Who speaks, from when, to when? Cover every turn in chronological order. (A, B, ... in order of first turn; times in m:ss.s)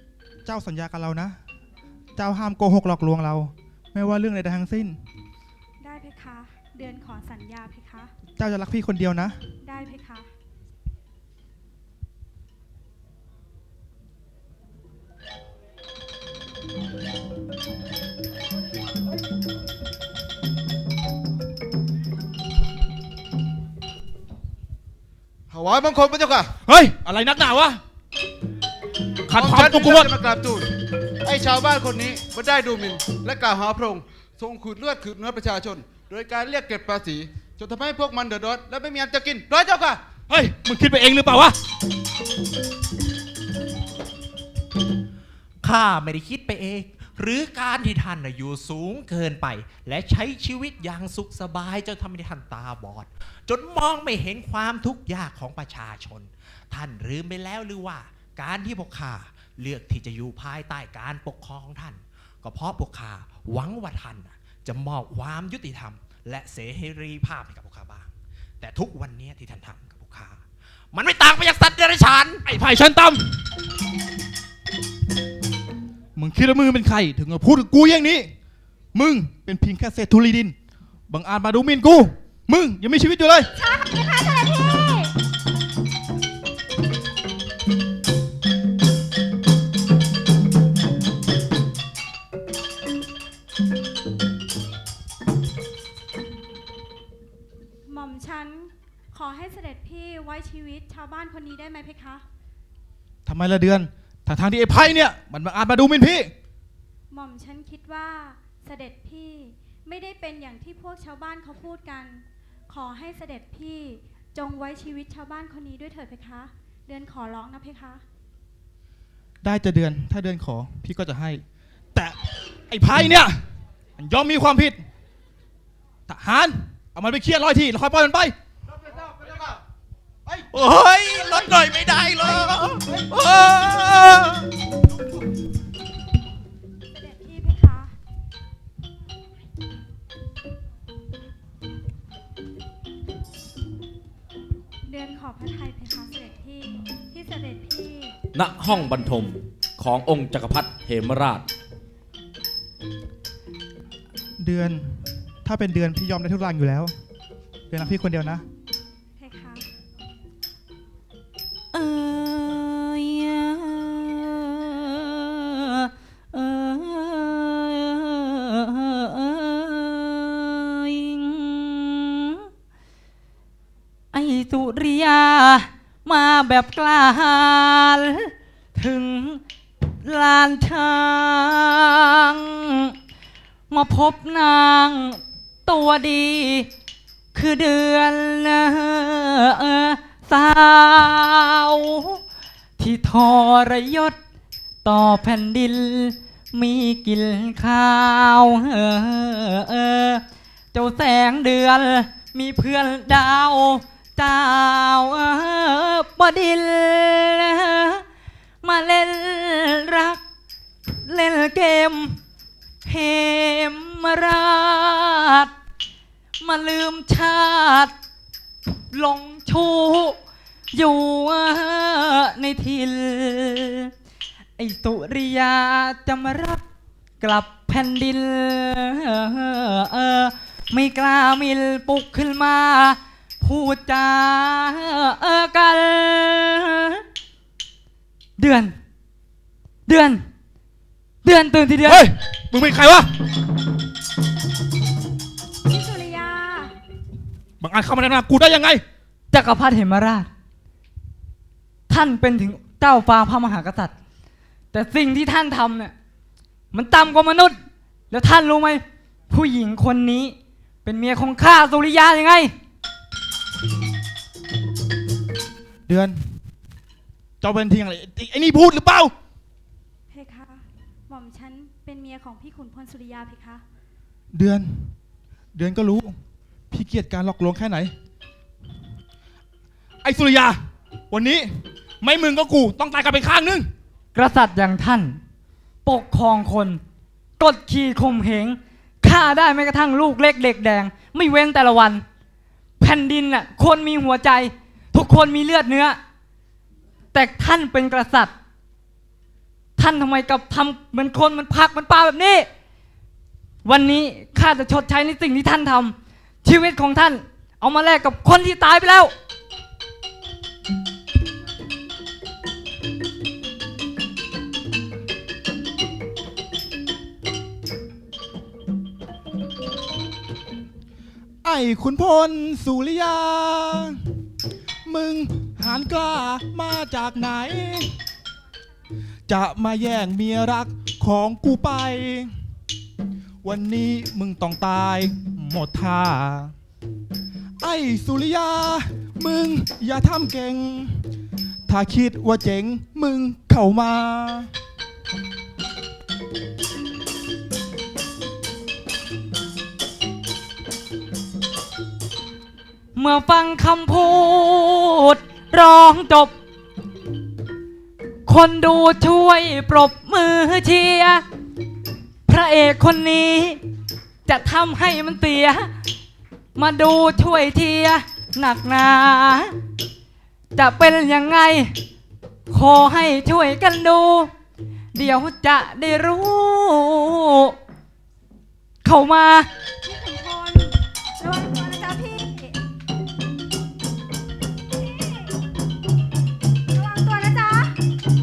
0:00.4-0:01.4 A
0:02.2-0:05.0 A
0:05.8-0:08.1 B
0:08.4-0:09.4 A
0:09.6-0:10.3 B
0:25.5-0:26.5 C
0:26.6-0:27.8 A
0:29.3-0:30.1 A
0:29.3-0:30.7 C
0:31.2-0:40.0 C
0:40.3-0:41.6 A
0:45.6-1:12.4 D
1:12.5-1:13.4 A
1:16.2-1:18.3 A
1:18.9-1:20.6 A
1:21.1-1:23.5 A
1:23.9-1:24.9 B
1:37.9-1:42.2 B
1:43.3-1:46.3 A
1:47.1-1:58.0 B
1:59.4-2:01.4 A
2:02.7-2:03.5 A
2:04.0-2:04.8 A
2:06.1-2:08.4 A
2:09.2-2:09.5 C
2:10.5-2:14.5 D
2:16.9-2:18.0 B
2:24.9-2:28.2 B
2:28.3-2:31.4 E
2:34.4-2:36.9 A
2:37.7-2:38.4 A
2:39.2-2:39.7 B
2:41.7-2:52.4 F
2:54.1-2:59.4 F
3:00.0-3:02.8 F
3:03.7-3:06.7 F
3:07.3-3:12.2 F
3:12.8-3:14.2 F
3:14.8-3:20.2 F
3:20.7-3:28.0 F
3:28.6-3:30.2 F
3:31.0-3:32.2 F
3:32.8-3:35.5 F
3:36.4-3:37.9 F
3:38.9-3:40.2 F
3:40.7-3:43.9 F
3:44.6-3:46.6 F
3:47.2-3:57.0 F
3:58.4-3:58.8 F
3:59.9-4:00.3 F
4:01.2-4:02.1 F
4:01.8-4:03.1 A
4:05.7-4:06.7 B
4:07.6-4:08.8 A
4:09.3-4:10.3 F
4:11.9-4:13.9 F
4:14.7-4:16.0 F
4:16.7-4:22.6 F
4:25.9-4:26.4 A
4:27.4-4:29.1 A
4:30.1-4:33.6 B
4:34.3-4:35.0 A
4:35.6-4:36.2 A
4:36.7-4:37.9 A
4:40.0-4:40.6 A
4:41.1-4:43.7 A
4:44.1-4:45.2 F
4:45.8-4:46.8 F
4:47.4-4:52.0 F
4:52.8-4:56.0 F
4:57.1-4:58.4 F
4:59.8-5:02.5 F
5:03.6-5:09.1 F
5:21.4-5:24.0 A
5:24.9-5:28.0 A
5:29.3-5:32.3 A
5:33.4-5:36.5 A
5:37.6-5:41.1 A
5:41.7-5:44.5 A
5:53.0-5:56.3 F
5:58.3-6:01.2 F
6:02.3-6:03.6 F
6:04.3-6:05.7 F
6:06.6-6:09.6 F
6:10.6-6:11.8 F
6:12.5-6:14.3 F
6:14.9-6:17.6 F
6:18.8-6:19.5 F
6:19.8-6:22.6 B
6:24.7-6:25.3 B
6:26.7-6:27.8 B